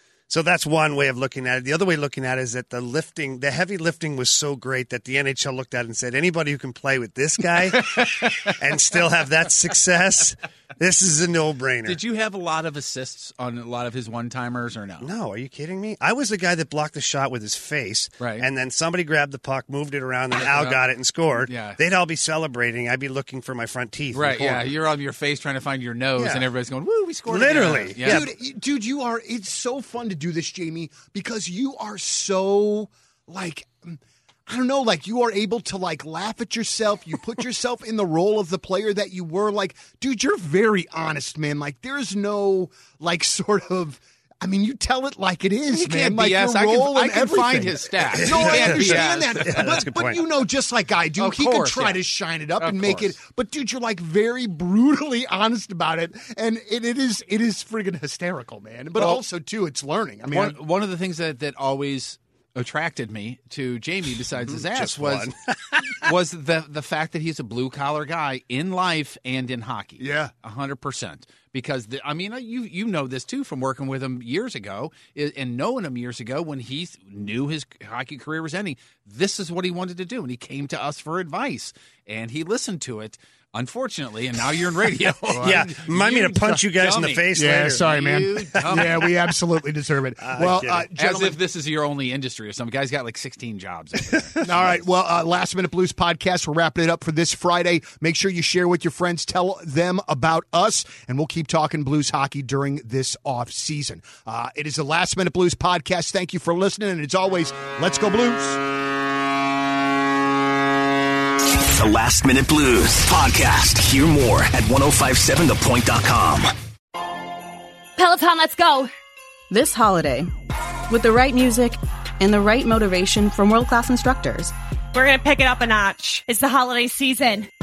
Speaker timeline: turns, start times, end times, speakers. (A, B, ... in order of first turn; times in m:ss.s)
0:00.3-0:12.0 A
0:07.6-0:08.6 B
0:11.8-0:15.1 B
0:15.0-0:24.7 A
0:18.2-0:18.5 B
0:20.3-0:20.8 B
0:21.4-0:21.8 B
0:24.1-0:28.3 B
0:26.2-0:26.4 A
0:27.3-0:28.3 A
0:28.0-1:00.6 C
0:45.7-0:49.9 B
0:48.2-0:50.2 A
0:51.2-0:52.0 B
0:52.6-0:53.1 B
0:59.0-0:59.2 B
1:00.3-1:05.3 B
1:04.5-1:06.1 A
1:05.9-1:29.2 B
1:10.0-1:10.3 C
1:25.3-1:25.6 C
1:25.4-1:27.8 A
1:27.3-1:31.4 C
1:30.2-1:30.9 A
1:31.0-1:34.8 B
1:34.4-1:48.6 C
1:51.5-1:56.5 D
1:58.0-1:58.9 E
1:59.5-2:00.3 F
2:00.9-2:04.5 F
2:04.9-2:07.5 E